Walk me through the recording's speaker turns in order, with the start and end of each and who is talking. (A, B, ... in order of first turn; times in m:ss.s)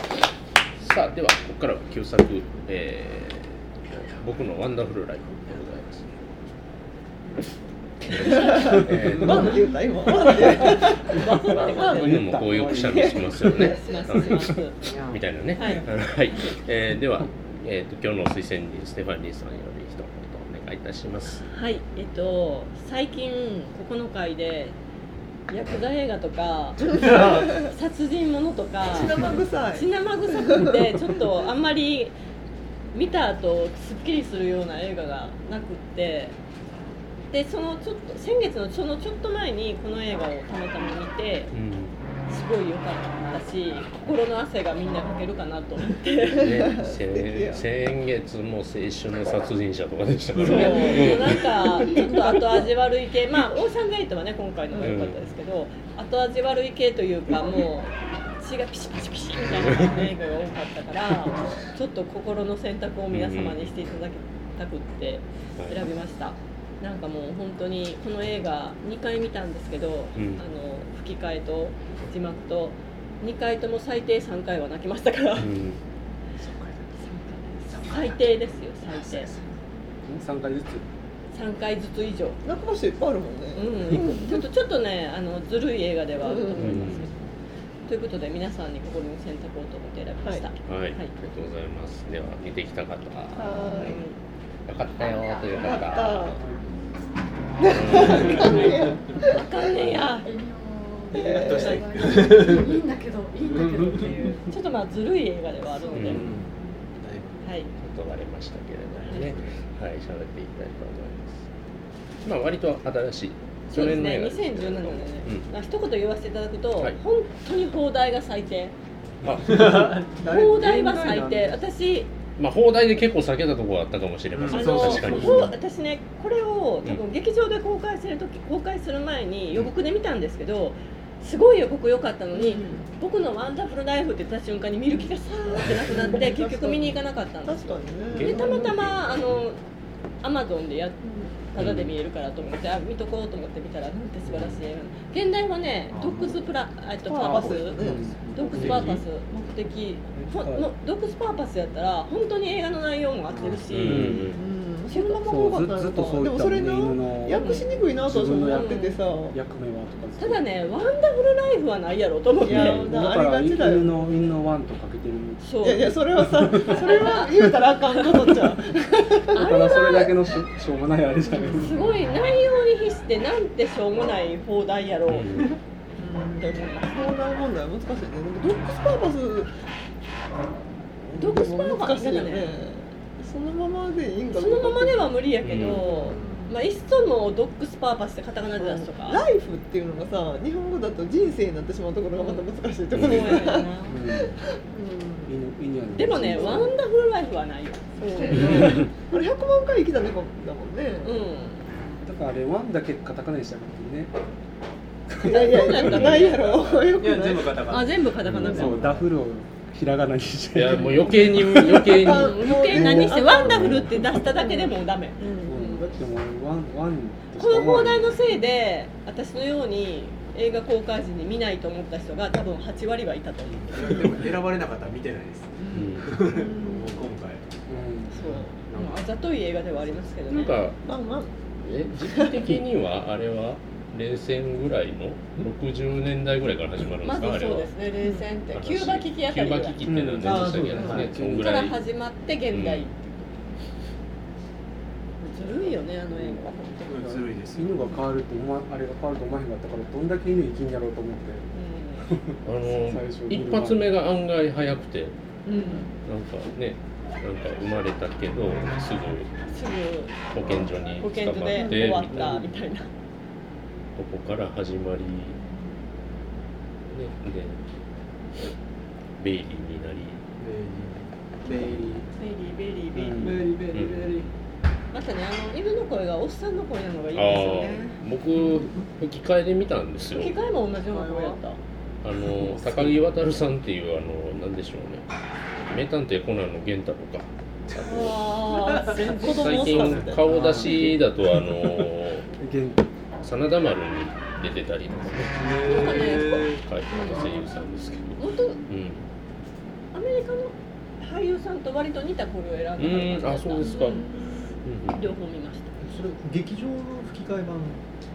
0:00.8-0:06.1 A
0:08.1-0:09.7 A
0:08.1-0:14.0 B
0:08.2-0:08.6 C
0:10.6-0:12.2 C
0:11.3-0:14.6 D
0:11.9-0:21.5 A
0:13.5-0:14.8 C
0:15.6-0:15.8 C
0:21.5-0:24.8 C
0:25.5-0:32.1 C
0:27.0-0:27.5 B
0:28.9-0:30.9 B
0:32.9-0:36.4 C
0:37.3-0:41.5 C
0:41.5-0:42.0 A
0:42.3-0:46.5 C
0:46.4-0:52.1 A
0:46.4-0:47.6 B
0:50.3-0:51.2 E
0:50.4-1:15.5 C
0:51.7-0:52.1 B
0:54.8-0:55.2 A
0:59.5-1:00.0 A
1:03.1-1:03.7 A
1:05.6-1:05.8 A
1:10.1-1:10.4 A
1:15.4-1:15.8 A
1:16.4-1:16.9 E
1:17.0-1:19.3 C
1:17.7-1:19.5 E
1:20.1-1:20.8 D
1:21.3-1:22.4 C
1:22.4-1:24.4 B
1:23.5-1:27.1 C
1:26.2-1:27.0 B
1:26.6-1:27.0 A
1:27.9-1:31.1 C
1:30.6-1:34.0 A
1:33.4-1:34.0 B
1:33.6-1:34.1 C
1:33.7-1:34.0 E
1:34.7-1:36.2 A
1:35.5-1:36.4 B
1:36.4-1:36.6 D
1:37.6-1:40.0 B
1:37.6-1:40.0 A
1:38.0-1:38.8 E
1:38.2-1:38.6 C
1:39.2-1:40.3 C
1:40.2-1:44.5 F
1:41.1-1:42.8 E
1:41.1-1:41.8 B
1:43.4-1:44.3 E
1:44.5-1:46.2 C
1:45.9-1:46.1 F
1:45.9-1:46.3 A
1:45.9-1:47.5 E
1:47.4-1:47.7 C
1:47.8-1:51.4 A
1:48.9-1:49.5 E
1:52.2-1:55.5 A
1:53.7-1:58.7 C
1:59.2-2:00.0 A
1:59.4-2:00.2 E
2:00.2-2:01.6 D
2:00.2-2:00.8 B
2:00.2-2:02.1 C
2:02.4-2:05.5 A
2:04.3-2:05.5 E
2:04.5-2:19.6 C
2:12.3-2:12.9 B
2:14.9-2:18.9 B
2:18.1-2:19.4 A
2:20.2-2:27.8 C
2:21.6-2:21.9 A
2:25.9-2:26.4 E
2:27.0-2:28.7 B
2:27.2-2:29.0 D
2:28.3-2:34.3 C
2:30.1-2:30.7 D
2:33.4-2:34.4 D
2:33.7-2:34.4 A
2:34.3-2:39.4 B
2:34.9-2:35.2 C
2:35.2-2:40.4 D
2:37.3-2:37.7 C
2:38.5-2:39.0 C
2:40.2-2:42.9 C
2:42.4-2:46.8 D
2:42.5-2:44.1 B
2:45.4-2:45.8 C
2:45.6-2:50.0 B
2:46.6-2:50.1 C
2:49.3-2:51.9 D
2:51.2-2:51.8 B
2:51.5-2:55.5 C
2:55.1-2:55.5 A
2:56.0-2:59.5 B
2:56.4-2:57.1 C
3:01.0-3:06.2 B
3:01.2-3:02.5 C
3:04.3-3:09.2 C
3:05.4-3:05.8 A
3:05.6-3:06.5 E
3:08.6-3:15.3 B
3:12.1-3:14.0 C
3:12.9-3:13.5 A
3:13.9-3:14.4 D
3:15.3-3:16.7 D
3:15.9-3:18.8 C
3:16.1-3:16.7 B
3:18.1-3:21.2 B
3:21.0-3:21.7 C
3:22.0-3:24.1 D
3:25.1-3:26.3 D
3:25.2-3:27.6 B
3:25.7-3:26.5 C
3:25.8-3:26.3 A
3:26.4-3:29.1 E
3:27.7-3:28.9 C
3:28.3-3:32.0 D
3:30.5-3:32.6 A
3:30.8-3:35.6 B
3:32.0-3:36.0 C
3:32.7-3:33.2 D
3:33.4-3:33.9 A
3:35.4-3:38.2 D
3:37.4-3:44.1 C
3:43.6-3:47.4 E
3:45.7-3:46.2 A
3:46.3-3:47.0 B
3:47.7-3:48.2 D
3:48.1-3:50.5 C
3:48.3-3:49.1 E
3:50.3-3:50.8 A
3:50.8-3:52.6 B
3:51.6-3:57.7 A
3:57.0-3:59.8 C
3:58.5-4:01.8 A
3:59.8-4:01.7 D
4:00.2-4:01.2 G
4:01.2-4:03.5 C
4:02.5-4:02.9 A
4:05.2-4:07.3 C
4:06.1-4:06.4 D
4:06.8-4:08.0 E
4:07.6-4:11.4 D
4:11.5-4:12.1 C
4:12.0-4:13.9 D
4:12.4-4:15.2 A
4:15.4-4:15.9 C
4:15.5-4:15.9 B
4:16.0-4:19.3 A
4:19.5-4:20.4 C
4:20.3-4:22.6 A
4:21.0-4:22.9 C
4:24.0-4:25.4 A
4:26.9-4:27.6 A
4:29.2-4:30.2 A
4:30.4-4:32.1 E
4:32.2-4:33.4 C
4:32.9-4:33.5 D
4:33.2-4:34.3 E
4:33.7-4:34.2 A
4:34.9-4:38.0 C
4:37.1-4:40.3 A
4:38.4-4:38.8 E
4:40.1-4:41.6 C
4:40.9-4:41.4 E
4:42.0-4:45.1 A
4:42.3-4:43.1 D
4:45.7-4:48.1 A
4:47.7-4:50.2 E
4:47.8-4:50.2 C
4:49.2-4:52.3 A
4:49.2-4:50.2 B
4:50.2-4:51.8 D
4:52.4-4:52.8 D
4:53.2-4:59.0 A
4:55.3-4:57.4 E
4:55.6-4:56.4 C
4:58.2-4:58.6 C
4:59.9-5:04.3 C
5:02.8-5:04.1 A
5:03.6-5:04.4 B
5:04.6-5:05.1 A
5:04.9-5:05.9 C
5:05.8-5:07.8 G